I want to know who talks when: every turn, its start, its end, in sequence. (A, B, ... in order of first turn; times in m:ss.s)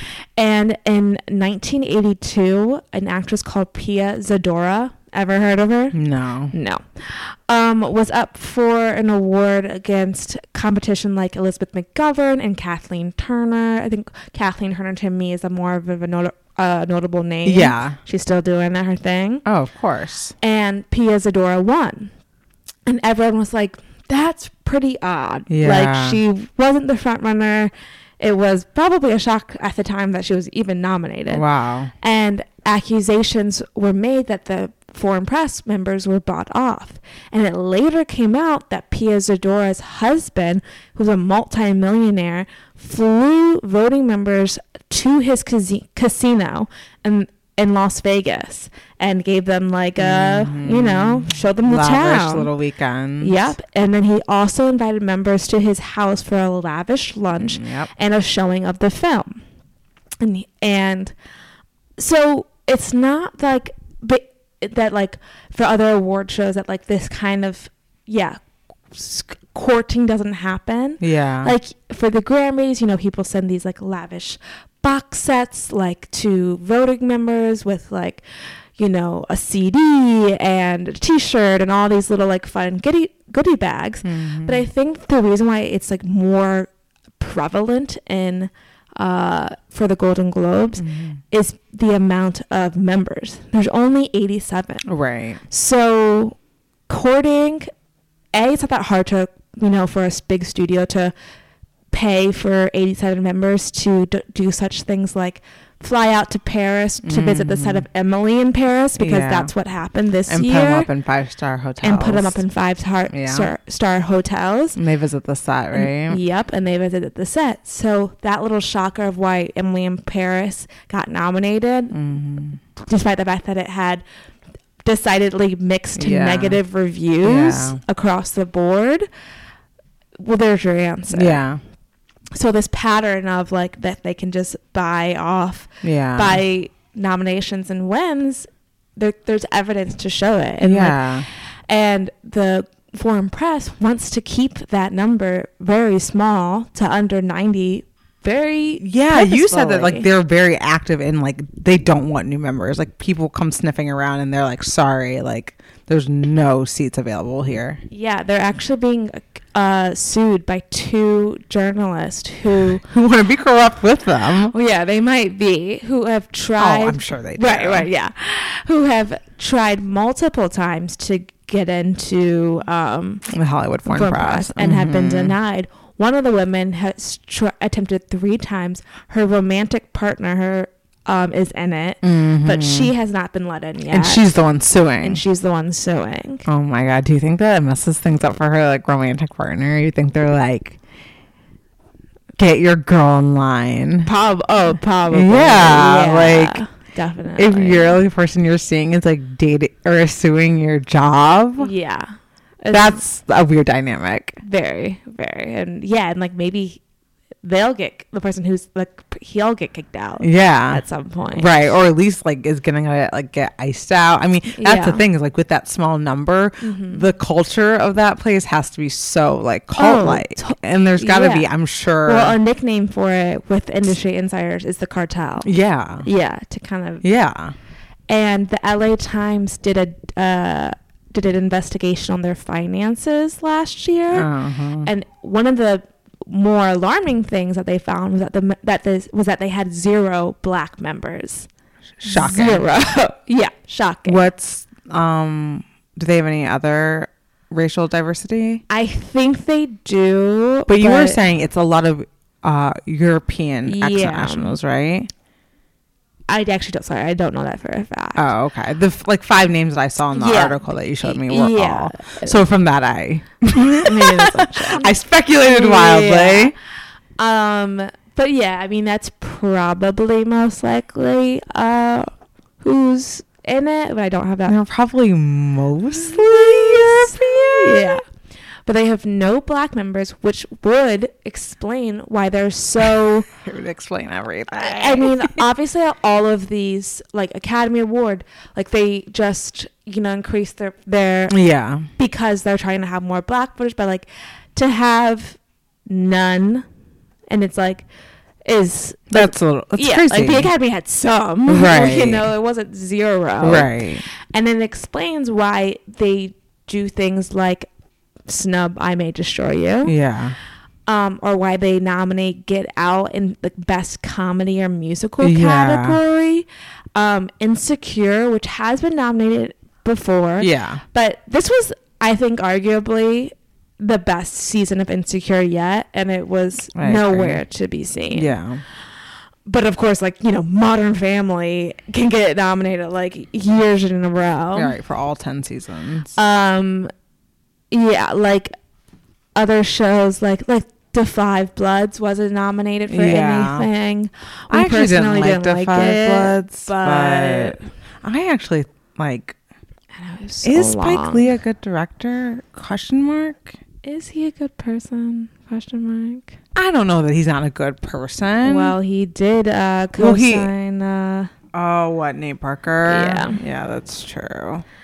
0:00.4-0:06.0 A
0:05.9-0:06.5 B
0:06.5-0:19.4 A
0:17.4-0:18.0 B
0:19.4-0:20.3 B
0:20.4-0:22.1 A
0:22.8-0:31.4 A
0:25.5-0:26.2 B
0:31.3-0:31.9 B
0:32.0-0:52.5 A
0:50.0-0:53.5 B
0:53.2-0:59.4 A
0:57.4-0:57.9 B
1:00.2-1:01.1 A
1:02.0-1:08.4 A
1:08.9-1:18.2 A
1:11.0-1:11.5 B
1:18.8-1:34.8 A
1:24.0-1:24.6 B
1:30.8-1:31.2 B
1:34.8-1:35.4 B
1:35.5-1:36.4 A
1:36.9-1:37.7 A
1:38.3-1:41.1 A
1:41.9-1:50.9 A
1:47.0-1:47.8 B
1:49.0-1:49.5 B
1:50.3-1:52.4 B
1:51.8-1:54.8 A
1:53.1-1:53.5 B
1:54.8-1:56.2 B
1:55.7-2:01.9 A
2:01.9-2:02.6 B
2:02.8-2:04.0 A
2:04.8-2:09.1 A
2:06.0-2:06.6 B
2:07.2-2:07.8 B
2:10.2-2:11.4 A
2:11.1-2:11.6 B
2:12.3-2:21.1 A
2:15.8-2:16.4 B
2:20.6-2:21.2 B
2:21.7-2:30.1 A
2:28.8-2:37.8 B
2:37.9-2:42.8 A
2:42.9-2:44.5 B
2:44.5-2:53.2 A
2:46.6-2:47.9 B
2:53.3-2:55.4 B
2:53.8-3:04.2 A
3:02.0-3:02.9 B
3:03.9-3:05.2 B
3:05.0-3:06.4 A
3:06.4-3:10.8 B
3:12.4-3:14.1 B
3:14.0-3:18.0 A
3:15.1-3:16.6 B
3:17.4-3:21.7 B
3:21.6-3:23.0 A
3:22.7-3:24.4 B
3:24.4-3:26.8 A
3:27.4-3:31.5 A
3:30.2-3:30.8 B
3:31.3-3:42.4 B
3:34.5-3:35.0 A
3:36.6-3:37.0 A
3:39.8-3:41.5 A
3:42.0-3:45.5 A
3:45.4-3:46.1 B
3:46.0-3:47.0 A
3:47.0-3:47.5 B
3:48.1-3:54.3 A
3:54.1-3:54.9 B
3:54.8-4:01.5 A
4:02.0-4:02.6 B
4:02.0-4:04.2 A
4:04.0-4:08.6 B
4:08.7-4:11.2 A
4:10.7-4:15.1 B
4:13.6-4:14.6 A
4:16.3-4:18.3 A
4:18.2-4:26.5 B
4:20.1-4:22.4 A
4:23.8-4:26.6 A
4:27.2-4:32.1 A
4:32.6-4:34.6 A
4:34.4-4:38.0 B
4:35.9-4:38.0 A
4:38.6-4:43.3 A
4:43.3-4:45.4 B
4:44.5-4:51.3 A
4:51.3-4:51.9 B
4:52.0-4:56.6 A
4:57.3-4:57.8 A
4:58.4-5:07.7 A
4:59.1-5:00.5 B
5:01.5-5:02.3 B
5:03.4-5:04.0 B
5:08.3-5:09.9 A
5:09.8-5:10.4 B
5:10.9-5:28.3 A
5:15.2-5:16.0 B
5:20.4-5:20.8 B
5:26.7-5:27.4 B
5:28.1-5:28.6 B
5:29.4-5:34.7 A
5:34.5-5:36.2 B
5:36.1-5:36.9 A
5:37.7-5:38.5 A
5:39.3-5:47.6 A
5:42.9-5:43.7 B
5:44.5-5:49.4 B
5:49.9-5:51.3 A
5:50.4-5:53.6 B
5:53.8-5:56.4 A
5:56.5-5:58.7 B
5:58.4-6:01.3 A
6:00.0-6:00.5 B
6:01.5-6:04.6 B
6:02.9-6:03.4 A